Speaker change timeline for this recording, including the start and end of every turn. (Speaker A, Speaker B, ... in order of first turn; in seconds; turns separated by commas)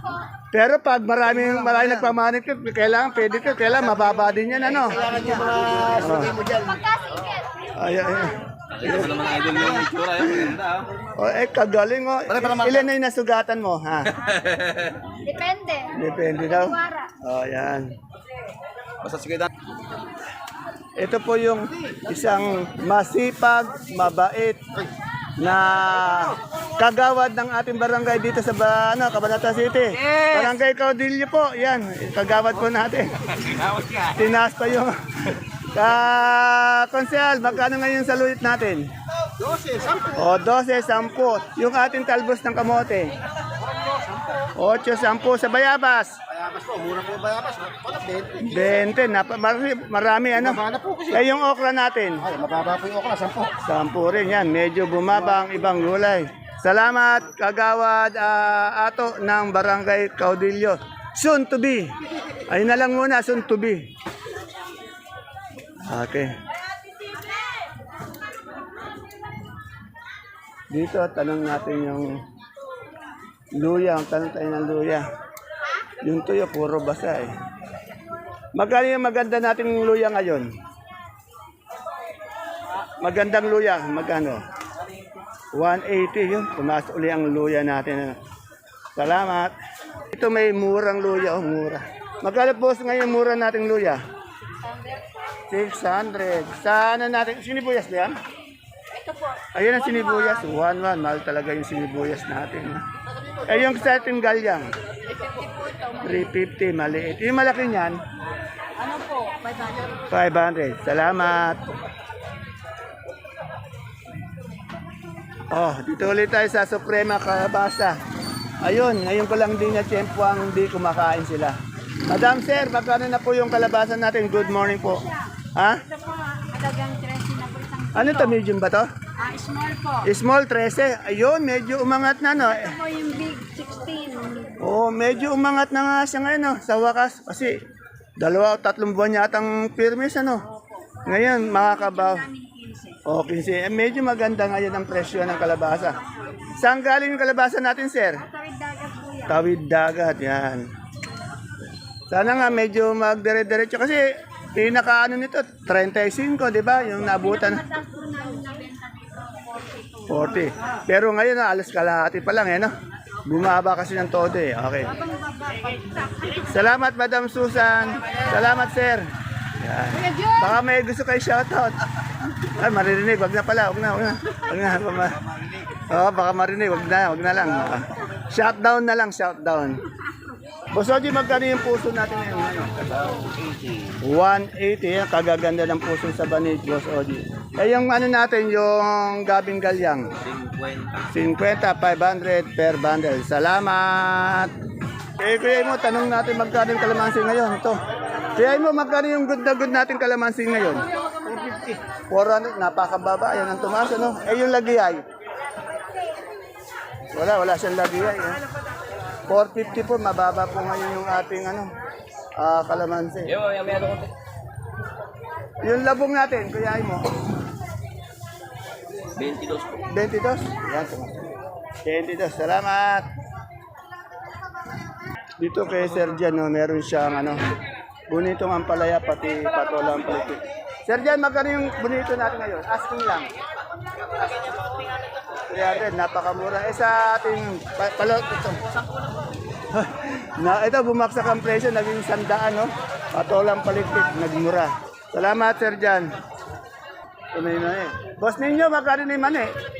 Speaker A: 0.5-5.0, Speaker B: 1.3-2.1, Speaker B: 4.5-6.8, Speaker A: 5.9-6.3, Speaker C: 6.4-7.4, Speaker A: 7.7-9.1, Speaker D: 8.8-10.8, Speaker B: 9.5-9.9, Speaker A: 11.2-14.2, Speaker B: 12.3-12.9, Speaker D: 14.2-14.9, Speaker C: 15.2-17.1, Speaker A: 15.9-17.9, Speaker D: 19.0-19.5, Speaker A: 21.0-24.6, Speaker A: 25.4-33.2, Speaker D: 33.4-34.0, Speaker A: 34.1-35.0, Speaker A: 35.7-38.9, Speaker B: 39.3-40.2, Speaker A: 40.2-43.1, Speaker B: 43.6-44.5, Speaker A: 44.6-46.1, Speaker B: 46.3-48.8, Speaker A: 48.4-52.2, Speaker B: 50.3-51.2, Speaker B: 52.2-53.5, Speaker A: 53.6-61.9, Speaker A: 62.5-63.8, Speaker A: 65.9-66.3, Speaker A: 70.7-72.2, Speaker A: 73.5-75.0, Speaker A: 76.0-77.3, Speaker A: 78.5-80.5, Speaker A: 83.0-84.4, Speaker A: 85.5-88.2, Speaker A: 89.0-89.5, Speaker A: 90.1-94.0, Speaker C: 94.6-95.0, Speaker A: 95.5-98.2, Speaker C: 98.9-100.4, Speaker A: 99.5-102.8, Speaker A: 103.4-104.7, Speaker C: 105.1-106.2, Speaker A: 106.0-108.0, Speaker C: 108.8-109.9, Speaker A: 110.1-111.6, Speaker A: 115.5-118.0, Speaker A: 118.6-121.6, Speaker A: 122.1-125.8, Speaker C: 125.8-128.4, Speaker A: 127.9-128.9, Speaker C: 129.2-130.1, Speaker A: 130.0-132.8, Speaker C: 132.4-134.6, Speaker A: 134.6-137.5, Speaker A: 138.2-140.4, Speaker C: 140.5-143.0, Speaker A: 141.1-142.3, Speaker A: 143.1-146.0, Speaker C: 146.0-146.4, Speaker A: 146.6-148.2, Speaker C: 148.2-149.4, Speaker A: 149.3-150.6, Speaker A: 152.1-154.0, Speaker A: 154.5-157.6, Speaker C: 157.1-160.3, Speaker A: 160.1-162.7, Speaker A: 163.2-164.9, Speaker C: 164.9-166.5, Speaker A: 166.5-169.0, Speaker A: 169.6-171.8, Speaker C: 170.1-170.5, Speaker A: 172.4-175.2, Speaker B: 175.2-175.6, Speaker A: 175.9-179.8, Speaker A: 180.7-183.3, Speaker D: 183.0-184.0, Speaker A: 184.0-190.1, Speaker D: 190.2-191.1, Speaker A: 191.1-194.5, Speaker A: 195.2-197.8, Speaker A: 198.3-200.8, Speaker B: 201.3-201.7, Speaker A: 202.1-205.0, Speaker A: 207.1-208.4, Speaker A: 209.3-211.7, Speaker A: 212.4-213.3, Speaker D: 213.2-214.1, Speaker A: 215.6-217.2, Speaker D: 219.1-219.8, Speaker A: 219.9-221.3, Speaker A: 221.8-223.1, Speaker A: 225.4-227.4, Speaker A: 228.1-233.3, Speaker A: 235.5-238.6, Speaker A: 239.7-246.2, Speaker A: 247.3-249.5